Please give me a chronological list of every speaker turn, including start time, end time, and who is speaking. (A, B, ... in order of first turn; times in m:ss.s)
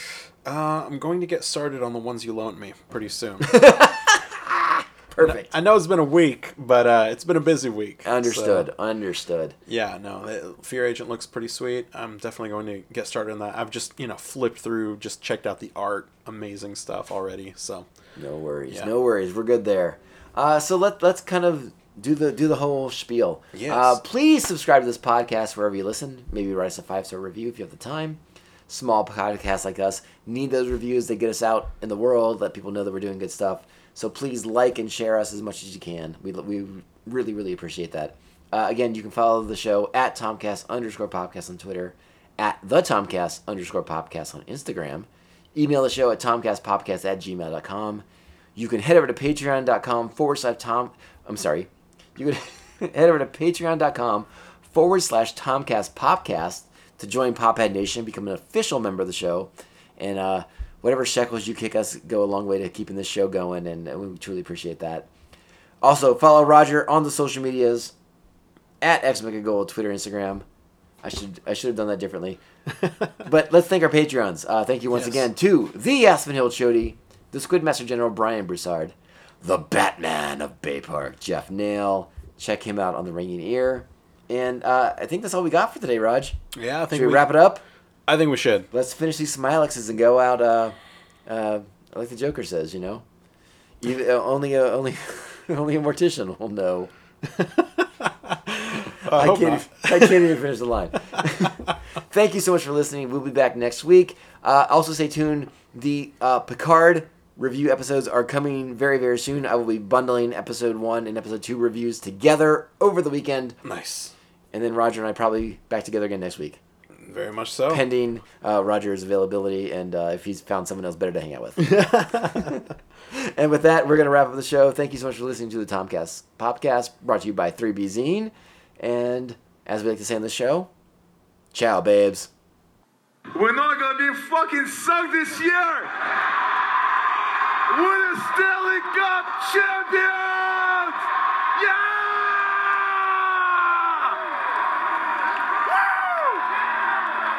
0:00.4-0:03.8 A
0:03.4-0:05.5 B
0:05.2-0:08.7 A
0:08.0-0:09.6 B
0:09.7-0:17.9 A
0:18.2-1:05.1 B
0:23.5-0:24.0 A
1:05.8-1:07.9 B
1:08.8-1:10.4 B
1:11.0-1:12.4 B
1:13.2-1:26.4 B
1:14.9-1:15.3 A
1:26.6-1:27.4 A
1:26.9-1:27.6 B
1:28.1-1:28.7 A
1:28.7-1:30.8 B
1:31.3-1:33.0 B
1:33.8-1:36.9 B
1:37.2-1:40.4 A
1:39.0-1:53.6 B
1:53.6-1:54.1 A
1:54.5-1:56.6 B
1:57.0-1:57.8 A
1:57.7-2:10.7 B
2:01.6-2:02.5 A
2:11.5-2:12.3 B
2:13.3-2:15.9 C
2:17.7-2:24.2 C
2:25.7-2:26.4 C